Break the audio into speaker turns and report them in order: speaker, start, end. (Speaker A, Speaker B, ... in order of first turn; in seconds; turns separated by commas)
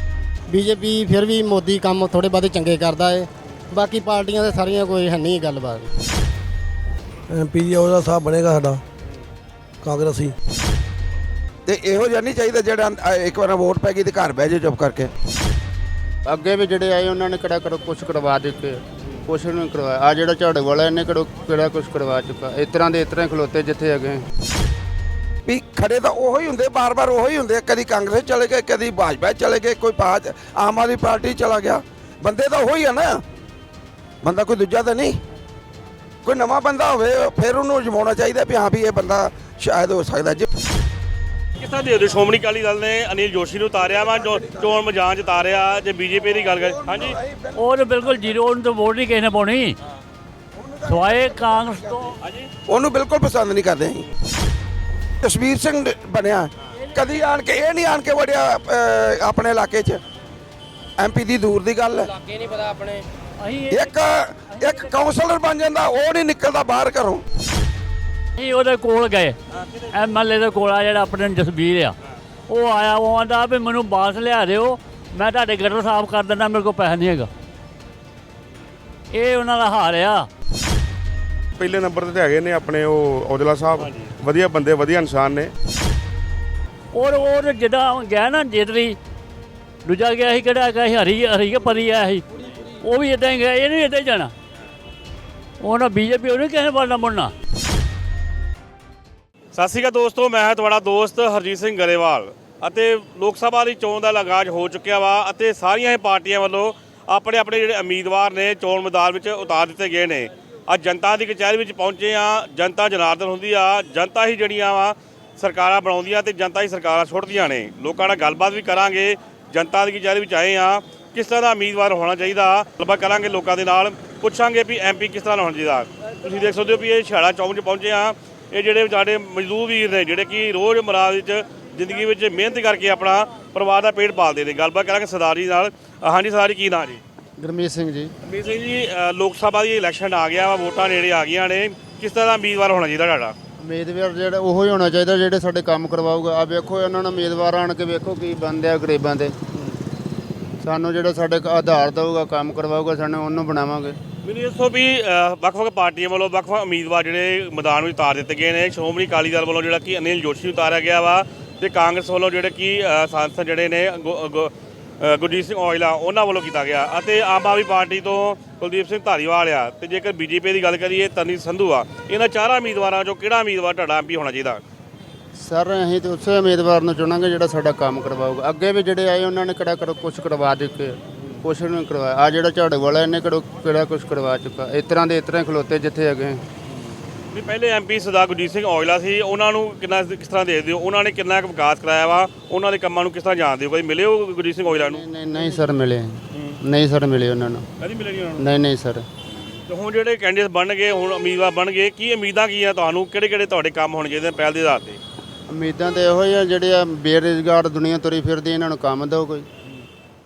Speaker A: 0.5-5.9, Speaker B: 7.3-8.8, Speaker B: 9.8-10.3, Speaker C: 11.7-15.1, Speaker D: 16.3-24.2, Speaker C: 25.5-33.2, Speaker C: 34.2-35.2, Speaker C: 36.2-40.5, Speaker E: 41.6-47.2, Speaker C: 47.0-47.5, Speaker F: 47.5-49.8, Speaker F: 50.9-52.2, Speaker E: 52.2-52.5, Speaker C: 52.7-54.1, Speaker C: 55.2-60.0, Speaker C: 61.0-62.1, Speaker F: 63.4-63.9, Speaker C: 63.7-67.2, Speaker F: 64.5-64.9, Speaker F: 68.4-69.4, Speaker F: 69.9-72.0, Speaker F: 72.5-77.3, Speaker F: 79.1-80.3, Speaker G: 81.6-85.5, Speaker E: 83.8-84.1, Speaker F: 86.9-89.0, Speaker F: 89.8-92.2, Speaker F: 92.8-94.3, Speaker F: 95.6-97.3, Speaker E: 99.5-137.0, Speaker D: 137.4-138.1, Speaker E: 138.2-143.3, Speaker D: 143.6-149.4, Speaker D: 150.6-154.0, Speaker E: 154.2-174.6, Speaker D: 175.4-186.4, Speaker E: 187.3-195.0, Speaker D: 194.7-197.7, Speaker E: 196.3-196.6, Speaker E: 197.8-198.5, Speaker D: 198.4-199.1, Speaker E: 199.7-205.0, Speaker D: 205.5-209.5